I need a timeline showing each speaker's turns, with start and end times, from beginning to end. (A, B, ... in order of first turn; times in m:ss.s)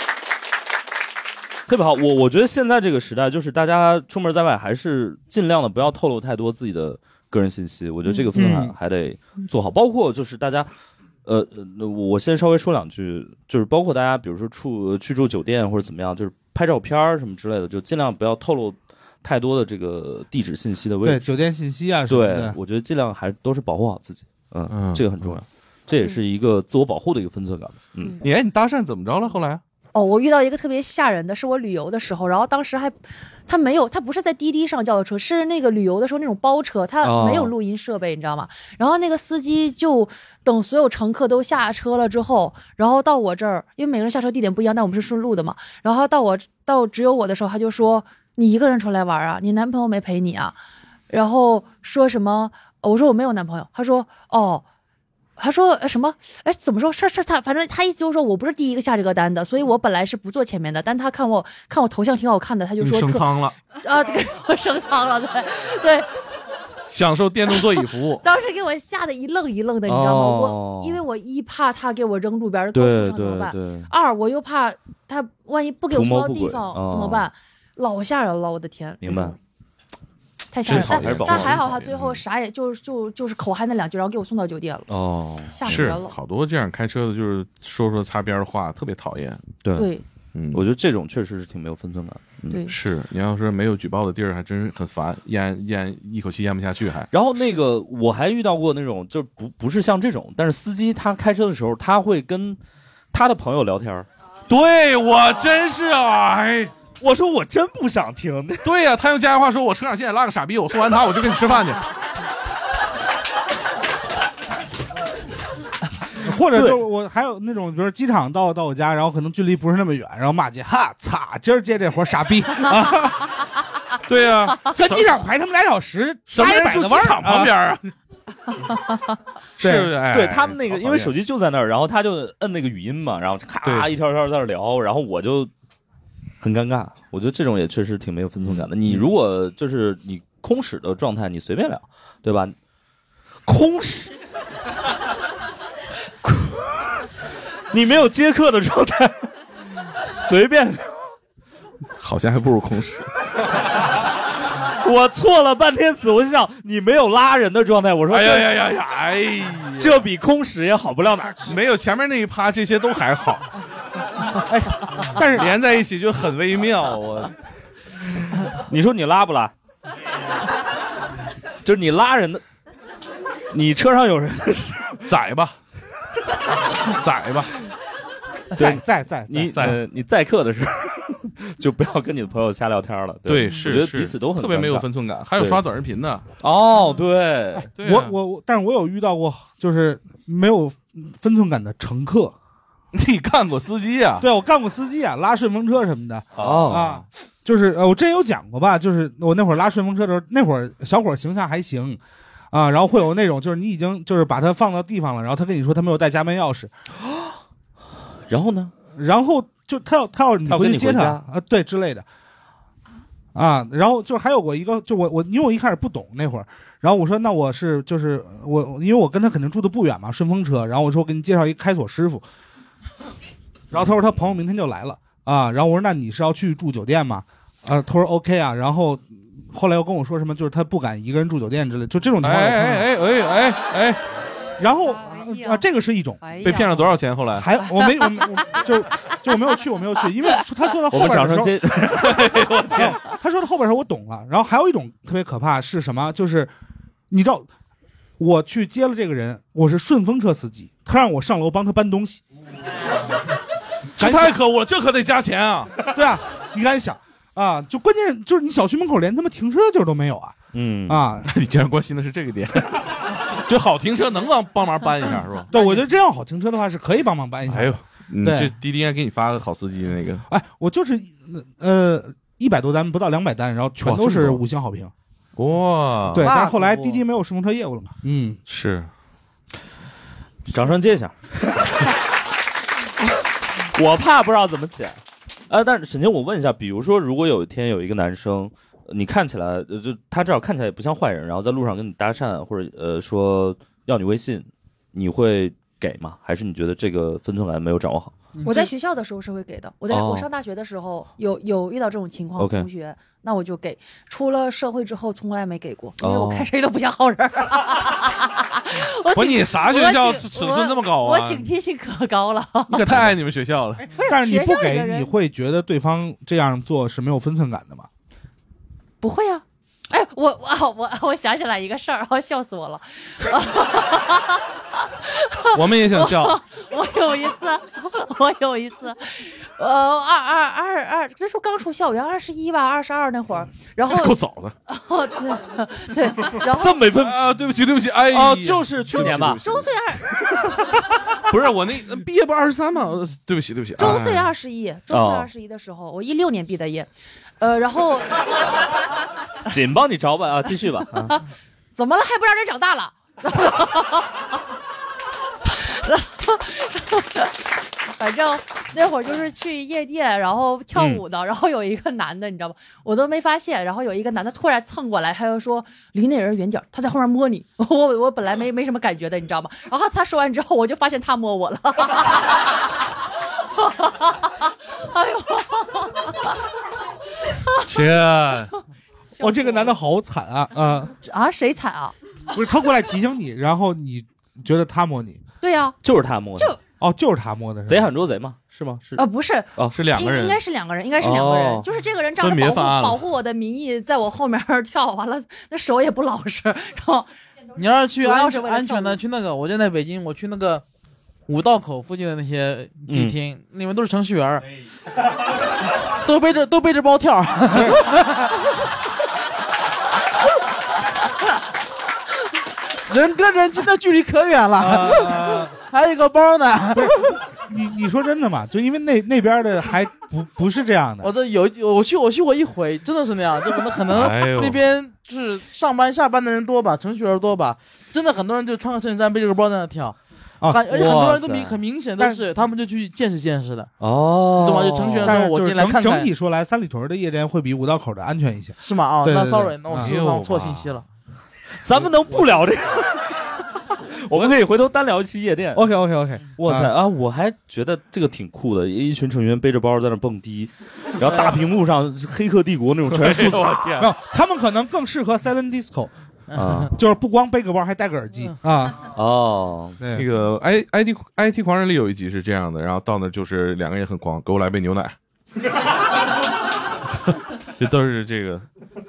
0:01.7-0:10.7 A
0:11.2-0:21.3 A
0:21.0-0:22.6 B
0:22.1-0:28.2 A
0:24.7-0:25.4 C
0:28.2-0:29.6 C
0:29.9-0:50.6 D
0:37.0-0:37.5 A
0:51.1-0:54.6 D
0:55.4-1:06.1 D
1:02.8-1:03.6 C
1:06.9-1:08.2 C
1:08.2-1:19.4 D
1:09.8-1:11.0 A
1:12.7-1:13.9 A
1:15.9-1:17.3 A
1:19.0-1:19.4 A
1:20.5-1:24.9 D
1:20.6-1:21.9 C
1:20.6-1:22.2 A
1:24.9-1:25.9 A
1:25.5-1:26.1 D
1:25.6-1:29.4 C
1:29.8-1:30.0 D
1:30.3-1:30.6 C
1:30.5-1:32.6 A
1:32.7-1:37.1 C
1:37.1-1:42.6 A
1:43.1-1:44.1 A
1:44.5-1:46.7 C
1:47.0-1:48.6 A
1:48.6-1:51.8 C
1:56.2-2:03.1 B
1:56.5-1:56.8 A
2:04.1-2:05.2 C
2:04.7-2:07.5 B
2:06.3-2:07.8 C
2:09.6-2:11.1 C
2:09.6-2:09.9 B
2:10.1-2:15.5 A
2:13.6-2:13.9 C
2:16.4-2:22.5 A
2:23.4-2:24.2 A
2:26.2-2:26.7 A
2:27.7-2:29.3 A
2:30.0-2:30.9 A
2:32.0-2:33.1 C
2:34.6-2:38.5 A
2:38.1-2:40.0 C
2:39.8-2:41.5 A
2:41.4-2:43.5 C
2:44.4-2:45.5 B
2:45.3-2:47.3 C
2:48.6-2:49.5 A
2:51.6-2:52.4 A
2:53.5-2:55.0 A
2:55.0-2:55.6 C
2:56.9-2:57.5 C
2:58.6-2:59.8 B
2:58.6-3:04.8 A
2:59.5-2:59.8 C
3:03.2-3:06.2 C
3:06.4-3:07.7 A
3:07.5-3:12.3 B
3:07.8-3:08.1 C
3:12.9-3:14.2 C
3:14.2-3:22.0 B
3:16.4-3:17.0 A
3:22.5-3:26.7 B
3:28.3-3:28.7 A
3:28.9-3:32.0 B
3:30.4-3:31.2 A
3:33.3-3:42.2 B
3:43.7-3:52.8 B
3:52.2-3:54.0 C
3:54.6-3:56.2 B
3:55.0-3:55.6 D
3:56.2-3:56.7 D
3:56.4-3:57.5 C
3:57.3-4:01.7 B
4:00.9-4:02.8 A
4:02.0-4:02.9 C
4:02.7-4:06.5 B
4:07.1-4:07.5 B
4:08.2-4:12.2 B
4:14.0-4:15.8 C
4:14.0-4:14.4 B
4:15.9-4:21.3 B
4:20.5-4:21.0 A
4:21.3-4:25.5 C
4:25.5-4:28.5 B
4:27.5-4:30.2 C
4:30.3-4:34.9 B
4:33.8-4:34.4 C
4:35.4-4:36.3 C
4:36.1-4:38.4 B
4:36.2-4:37.0 E
4:38.5-4:38.9 C
4:40.4-4:41.9 A
4:43.6-4:45.0 A
4:45.5-4:58.1 A
4:58.3-4:58.7 E
4:58.4-5:12.9 D
4:59.9-5:00.3 A
5:02.4-5:02.7 A
5:06.0-5:06.5 A
5:09.1-5:11.4 C
5:12.7-5:13.9 C
5:13.9-5:15.1 D
5:14.0-5:17.9 B
5:19.0-5:24.4 D
5:25.2-5:34.2 D
5:25.5-5:26.4 C
5:33.9-5:34.5 C
5:34.7-5:36.9 D
5:36.5-5:37.2 A
5:36.9-5:39.6 C
5:38.1-5:39.4 A
5:39.2-5:40.3 D
5:41.3-5:44.3 C
5:43.8-5:46.9 D
5:44.9-5:45.3 A
5:47.4-5:48.4 D
5:49.4-5:51.1 A
5:51.7-5:54.2 D
5:55.6-5:57.3 D
5:58.0-6:12.4 D
6:13.6-6:16.3 D
6:17.6-6:18.5 C
6:19.2-6:19.7 D
6:19.2-6:20.9 B
6:21.0-6:21.9 D
6:22.3-6:25.2 B
6:25.4-6:25.8 D
6:25.8-6:26.5 A
6:26.8-6:27.9 B
6:27.7-6:29.0 A
6:29.0-6:37.1 D
6:29.7-6:30.4 C
6:31.0-6:31.6 A
6:32.2-6:33.0 C
6:37.6-6:40.6 E
6:38.0-6:39.0 D
6:41.3-6:44.5 E
6:42.9-6:43.2 A
6:46.0-6:48.3 E
6:47.5-6:47.8 B
6:52.9-6:57.0 E
6:54.6-6:55.5 B
6:56.7-7:01.1 B
7:01.0-7:10.0 E
7:03.9-7:04.6 C
7:10.5-7:13.7 E
7:10.7-7:11.6 A
7:13.8-7:15.2 A
7:14.4-7:16.1 E
7:15.0-7:19.9 B
7:18.6-7:20.8 E
7:19.7-7:20.7 C
7:21.6-7:25.7 A
7:25.5-7:26.7 B
7:26.4-7:33.8 A
7:32.9-7:33.9 C
7:33.8-7:35.9 B
7:36.3-7:36.6 E
7:36.4-7:36.7 A
7:36.7-7:38.8 B
7:38.9-7:39.8 A
7:39.8-7:40.1 B
7:39.9-7:44.9 C
7:47.6-7:48.4 C